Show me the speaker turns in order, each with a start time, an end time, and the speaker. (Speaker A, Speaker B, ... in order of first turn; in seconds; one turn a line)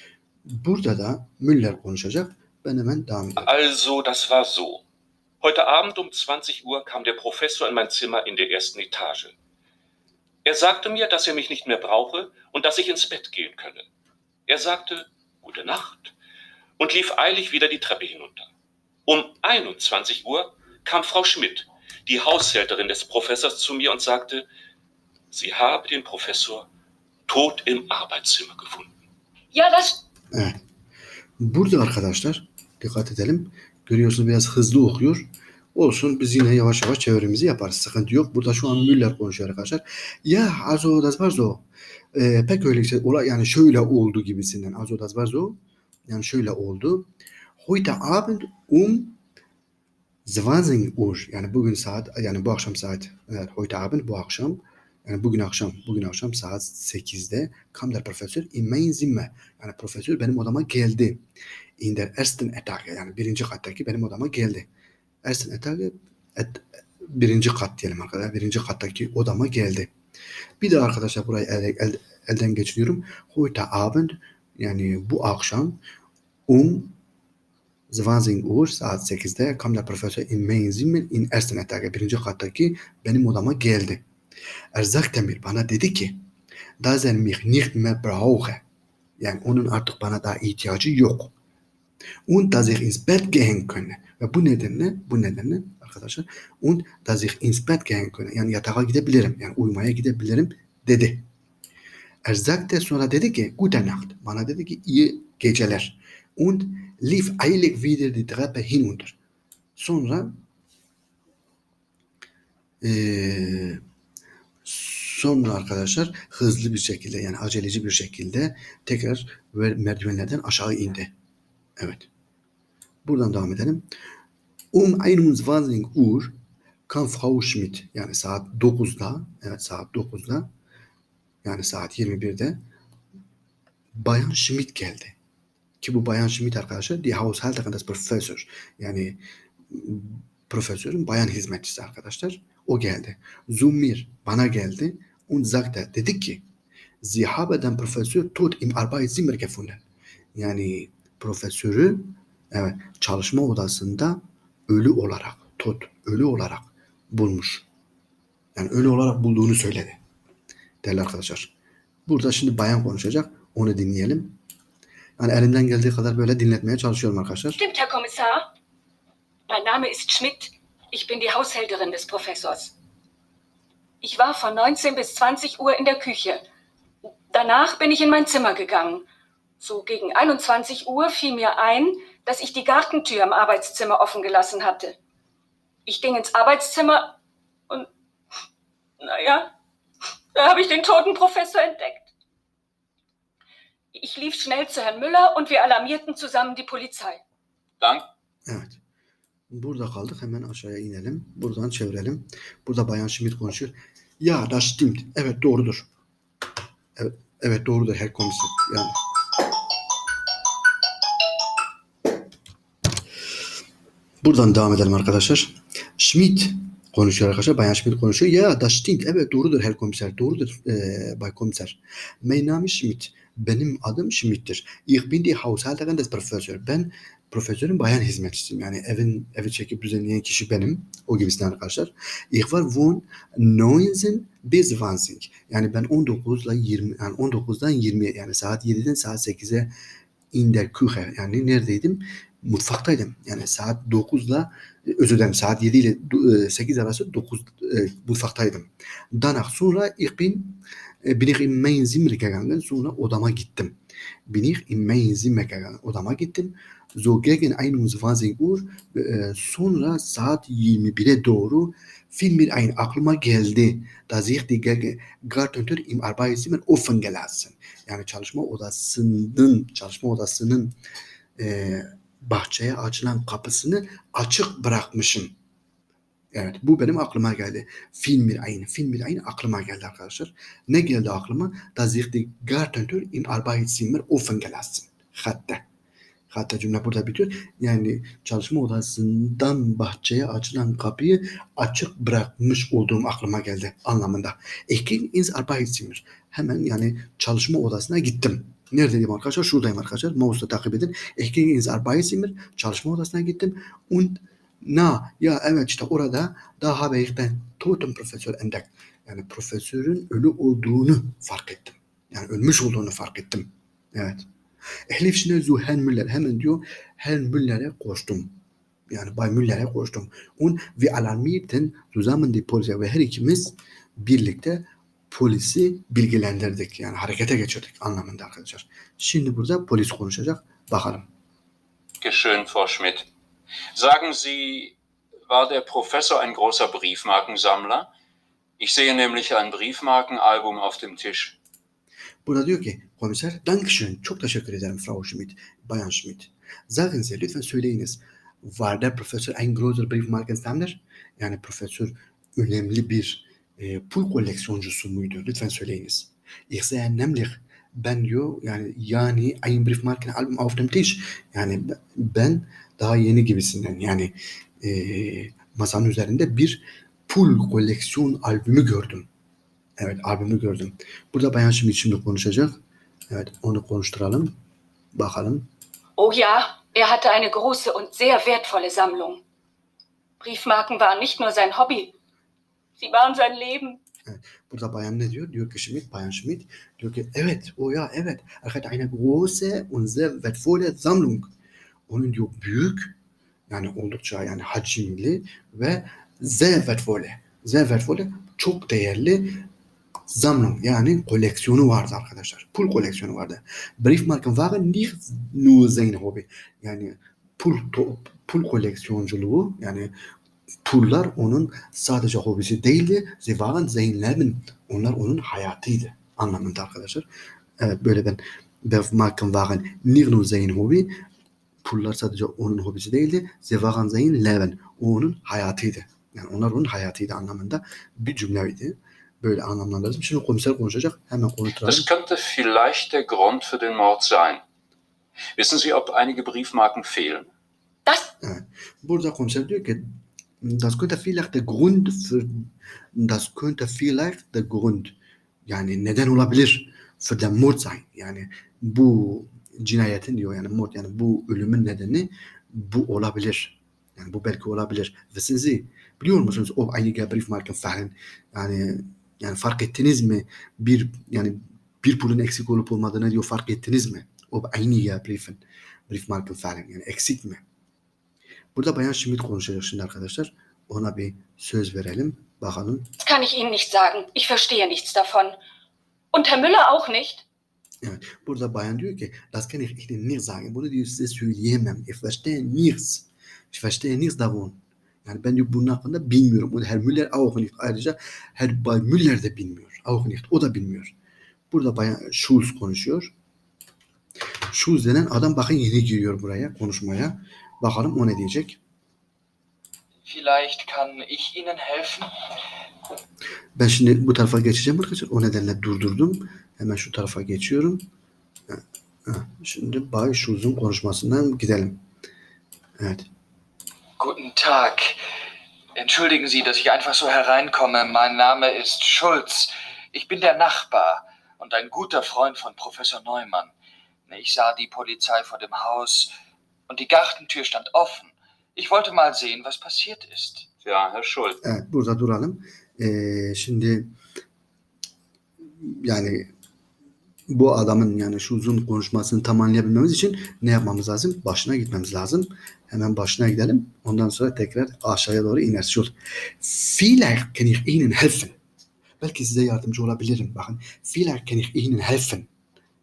Speaker A: 0.5-3.5
Speaker B: 3.4-4.8
Speaker B: 5.4-9.3
Speaker B: 10.4-13.9
Speaker B: 14.5-16.1
Speaker B: 16.8-18.5
Speaker B: 19.1-24.5
Speaker B: 25.3-26.7
Speaker B: 27.3-28.9
Speaker C: 29.5-30.0
Speaker A: 30.3-30.6
Speaker A: 31.4-41.6
Speaker A: 42.1-45.6
Speaker A: 46.1-47.1
Speaker A: 47.6-49.2
Speaker A: 50.3-61.2
Speaker A: 61.8-64.7
Speaker A: 65.2-69.9
Speaker A: 70.6-75.8
Speaker A: 76.5-77.0
Speaker A: 77.9-84.0
Speaker A: 84.8-86.2
Speaker A: 86.8-88.6
Speaker A: 89.2-91.3
Speaker A: 92.3-101.3
Speaker A: 102.3-109.2
Speaker A: 109.8-110.4
Speaker A: 112.8-113.8
Speaker A: 114.7-121.1
Speaker A: 121.8-122.1
Speaker A: 123.0-123.8
Speaker A: 124.7-126.3
Speaker A: 126.9-130.5
Speaker A: 131.4-132.6
Speaker A: 133.9-135.2
Speaker A: 135.8-139.2
Speaker A: 139.7-146.4
Speaker A: 147.0-149.8
Speaker A: 150.4-157.7
Speaker A: 158.6-160.0
Speaker A: 160.8-161.5
Speaker A: 162.1-164.4
Speaker A: 165.2-167.6
Speaker C: 167.6-168.5
Speaker C: 169.5-172.7
Speaker C: 174.0-176.4
Speaker C: 177.3-179.0
Speaker C: 179.6-185.0
Speaker C: 185.9-187.2
Speaker C: 189.0-189.5
Speaker C: 190.3-192.1
Speaker C: 193.9-197.2
Speaker D: 197.8-198.1
Speaker A: 198.5-198.8
Speaker A: 199.5-205.9
Speaker A: 207.0-208.9
Speaker A: 214.2-239.7
Speaker A: 240.3-253.8
Speaker A: 254.3-270.8
Speaker A: 271.4-275.3
Speaker A: 276.3-285.6
Speaker A: 286.3-314.2
Speaker A: 314.9-318.3
Speaker A: 318.9-331.1
Speaker D: 332.0-333.1
Speaker D: 333.7-334.8
Speaker D: 335.3-337.9
Speaker D: 338.6-341.4
Speaker A: 342.2-369.1
Speaker A: 369.8-372.6
Speaker A: 373.1-374.4
Speaker A: 374.9-375.5
Speaker C: 376.0-379.2
Speaker C: 380.2-381.9
Speaker C: 382.8-383.8
Speaker A: 384.1-391.3
Speaker A: 391.9-392.9
Speaker A: 393.5-399.5
Speaker A: 400.1-409.9
Speaker A: 410.6-417.1
Speaker A: 417.6-421.0
Speaker A: 421.6-431.9
Speaker D: 431.6-434.4
Speaker D: 435.4-437.3
Speaker C: 437.9-438.1
Speaker A: 438.2-439.8
Speaker A: 440.4-444.9
Speaker A: 445.5-467.4
Speaker A: 468.6-472.9
Speaker C: 473.0-475.4
Speaker C: 476.1-477.2
Speaker A: 477.8-490.9
Speaker A: 491.5-493.1
Speaker A: 494.5-498.6
Speaker E: 500.1-502.1
Speaker A: 503.6-507.9
Speaker A: 508.5-511.8
Speaker A: 512.8-513.1
Speaker E: 514.0-515.0
Speaker E: 515.8-523.5
Speaker E: 524.1-526.1
Speaker E: 526.7-530.5
Speaker D: 530.6-531.4
Speaker A: 531.4-533.9
Speaker A: 535.6-536.3
Speaker A: 537.3-548.4
Speaker A: 549.0-552.3